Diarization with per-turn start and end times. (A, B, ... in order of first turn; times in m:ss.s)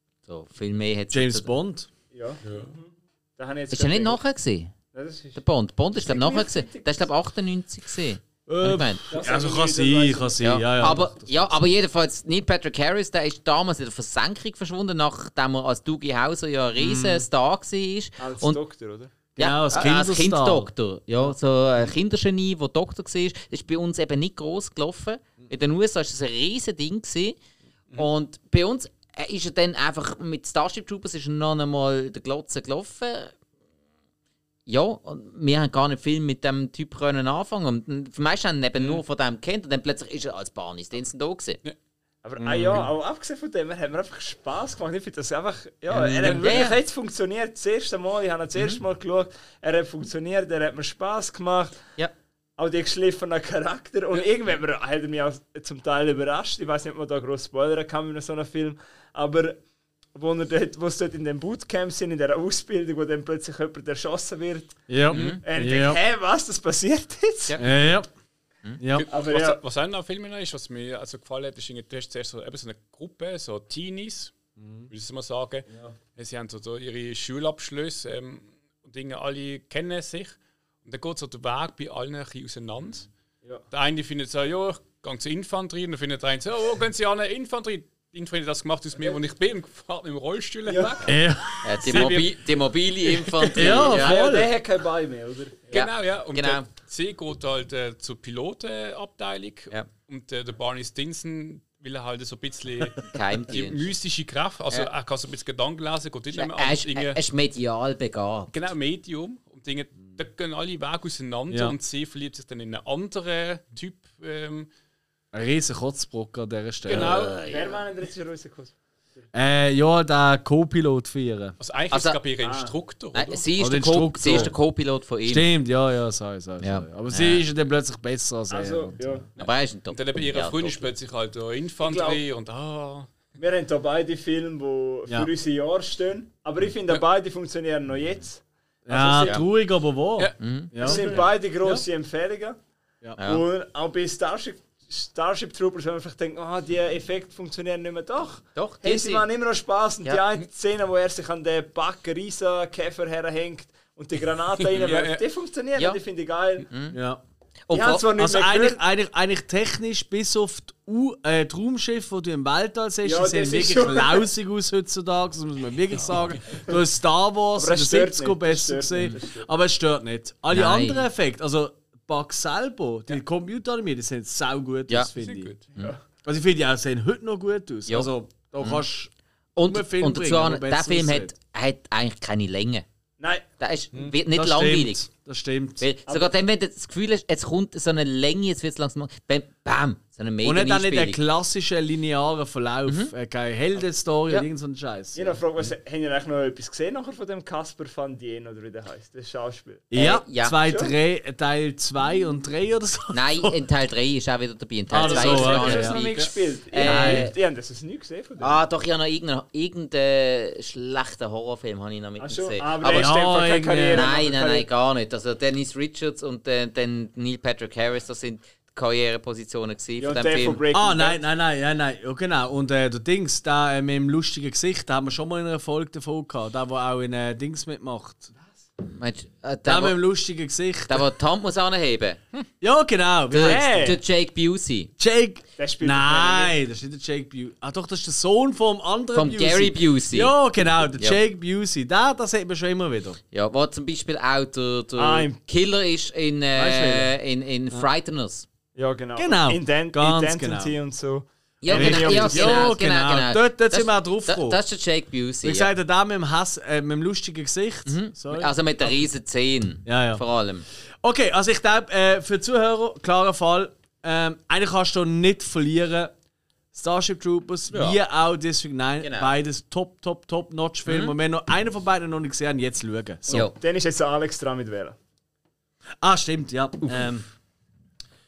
0:00.3-0:01.5 A
0:01.1-0:01.9 B
0:02.1-0:04.2 C
0:02.4-0:02.7 D
0:03.7-0:04.7 A
0:04.9-0:05.4 C
0:05.3-0:09.1 A
0:05.9-0:07.1 C
0:08.5-0:11.5 B
0:09.1-0:10.9 C
0:10.4-0:18.6 A
0:16.8-0:17.2 B
0:18.2-0:19.1 C
0:19.4-0:20.7 B
0:19.4-0:27.4 A
0:27.9-0:33.3 A
0:34.7-0:41.6 A
0:42.2-0:51.8 C
0:42.4-0:42.9 B
0:45.9-0:46.7 B
0:46.3-0:46.7 A
0:52.6-0:59.6 C
1:00.1-1:04.8 C
1:04.9-1:06.0 B
1:05.1-1:05.4 D
1:05.1-1:05.4 A
1:05.4-1:07.6 C
1:07.6-1:08.1 B
1:08.8-1:09.1 B
1:08.9-1:14.3 D
1:09.1-1:09.6 C
1:14.6-1:14.9 B
1:14.9-1:23.1 D
1:23.7-1:31.1 D
1:30.6-1:31.0 C
1:31.0-1:32.2 B
1:31.6-1:34.2 A
1:31.8-1:32.4 D
1:33.1-1:33.9 D
1:33.5-1:34.5 B
1:33.8-1:35.7 C
1:35.7-1:47.2 D
1:35.7-1:36.7 A
1:43.1-1:43.9 A
1:46.3-1:48.5 A
1:48.5-1:54.7 D
1:55.3-1:57.2 B
1:56.9-1:57.5 D
1:56.9-1:57.8 A
1:57.5-1:59.3 C
1:59.3-2:01.6 B
2:01.6-2:03.5 D
2:01.9-2:02.2 A
2:02.4-2:02.7 C
2:03.1-2:05.5 A
2:03.6-2:04.5 B
2:04.1-2:04.5 D
2:05.2-2:09.0 B
2:06.6-2:07.4 A
2:08.5-2:09.3 C
2:09.4-2:10.9 A
2:09.4-2:13.1 D
2:11.8-2:12.2 C
2:13.4-2:19.4 C
2:18.8-2:21.8 B
2:20.4-2:21.2 A
2:20.8-2:22.6 C
2:23.2-2:23.4 A
2:23.2-2:36.7 C
2:28.5-2:29.2 A
2:34.6-2:35.2 D
2:36.7-2:37.0 A
2:36.9-2:37.2 B
2:37.7-2:38.2 A
2:37.7-2:38.8 C
2:38.2-2:55.5 B
2:43.0-2:44.3 C
2:47.6-2:49.5 C
2:50.5-2:51.1 A
2:55.2-2:55.7 D
2:55.7-2:56.0 C
2:56.2-2:59.1 B
2:57.9-2:58.8 A
2:59.6-3:02.8 A
2:59.6-3:01.3 B
3:03.2-3:03.4 C
3:03.6-3:05.0 A
3:04.3-3:05.8 B
3:05.8-3:11.2 A
3:06.1-3:06.3 C
3:10.4-3:15.4 B
3:12.8-3:13.1 A
3:15.1-3:19.9 C
3:19.9-3:23.6 B
3:19.9-3:20.6 A
3:20.6-3:20.9 C
3:23.1-3:27.3 A
3:24.9-3:26.0 B
3:25.0-3:28.6 C
3:26.8-3:27.3 B
3:28.4-3:33.2 A
3:32.2-3:34.7 C
3:32.8-3:34.1 B
3:33.9-3:40.6 A
3:40.0-3:41.2 C
3:40.7-3:48.3 B
3:48.8-3:50.0 A
3:49.6-3:51.0 B
3:50.9-3:52.2 A
3:52.6-3:54.0 B
3:53.3-3:54.9 A
3:53.4-3:54.0 C
3:55.0-4:03.2 B
3:55.6-3:56.5 C
3:59.1-4:00.3 A
4:03.3-4:08.4 A
4:05.0-4:05.4 C
4:06.6-4:07.1 B
4:08.8-4:12.7 C
4:09.2-4:10.7 B
4:11.6-4:15.7 A
4:11.7-4:14.6 B
4:15.4-4:19.0 B
4:17.8-4:20.6 A
4:19.8-4:20.2 B
4:21.0-4:26.1 B
4:26.7-4:33.5 B
4:29.0-4:29.3 A
4:30.8-4:31.1 A
4:33.3-4:33.6 A
4:33.4-4:35.0 C
4:36.0-4:37.3 B